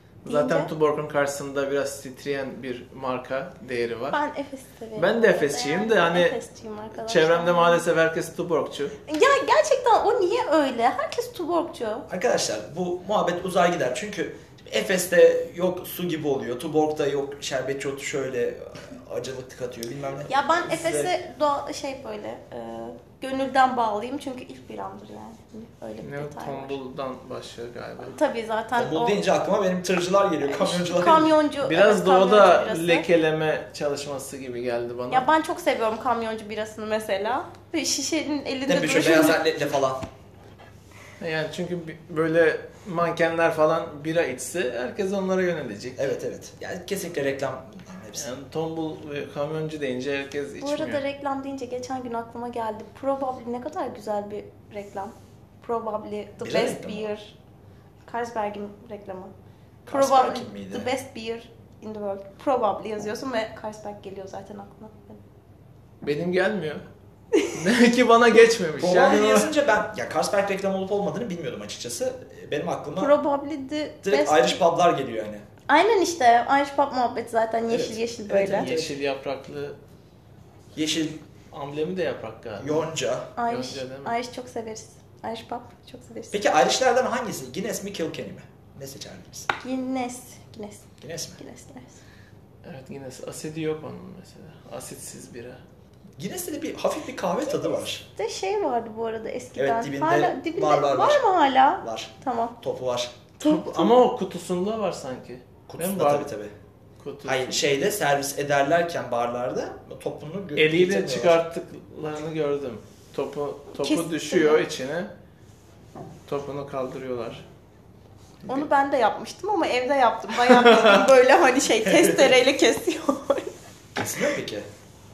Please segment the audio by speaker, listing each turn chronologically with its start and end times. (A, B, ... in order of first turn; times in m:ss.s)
0:00.2-0:04.2 A
0:00.3-0:00.7 B
0:04.1-0:07.8 B
0:05.0-0:06.4 A
0:07.0-0:08.9 A
0:09.1-0:12.1 B
0:12.1-0:21.1 C
0:20.3-0:26.8 B
0:26.0-0:28.2 A
0:28.0-0:29.2 B
0:28.8-0:31.3 C
0:30.4-0:33.1 B
0:31.6-0:35.3 A
0:35.1-0:39.4 B
0:38.7-0:40.0 C
0:41.2-0:46.0 A
0:46.0-0:48.3 C
0:48.2-0:51.0 A
0:50.6-0:57.3 B
0:56.4-0:57.1 C
0:58.0-0:59.3 B
0:59.8-1:00.9 C
0:59.9-1:05.2 B
1:06.0-1:06.8 A
1:07.5-1:09.5 A
1:08.8-1:13.1 C
1:13.0-1:14.6 B
1:14.0-1:15.4 C
1:15.7-1:18.7 B
1:17.7-1:18.9 C
1:18.4-1:19.8 A
1:20.7-1:21.2 C
1:21.5-1:22.9 A
1:22.6-1:23.3 C
1:23.4-1:26.4 B
1:23.5-1:24.1 A
1:26.3-1:29.5 C
1:29.6-1:30.9 B
1:31.0-1:31.4 C
1:31.4-1:32.0 B
1:32.6-1:35.6 A
1:36.2-1:38.0 C
1:38.1-1:42.6 B
1:39.6-1:41.2 C
1:41.8-1:43.2 C
1:43.4-1:44.0 B
1:43.4-1:46.3 A
1:45.7-1:46.5 C
1:47.0-1:47.7 A
1:47.2-1:51.4 C
1:50.6-1:55.1 A
1:53.8-1:54.6 B
1:56.3-1:57.4 A
1:58.5-2:03.5 B
2:00.5-2:01.1 A
2:01.8-2:02.3 C
2:04.0-2:04.7 C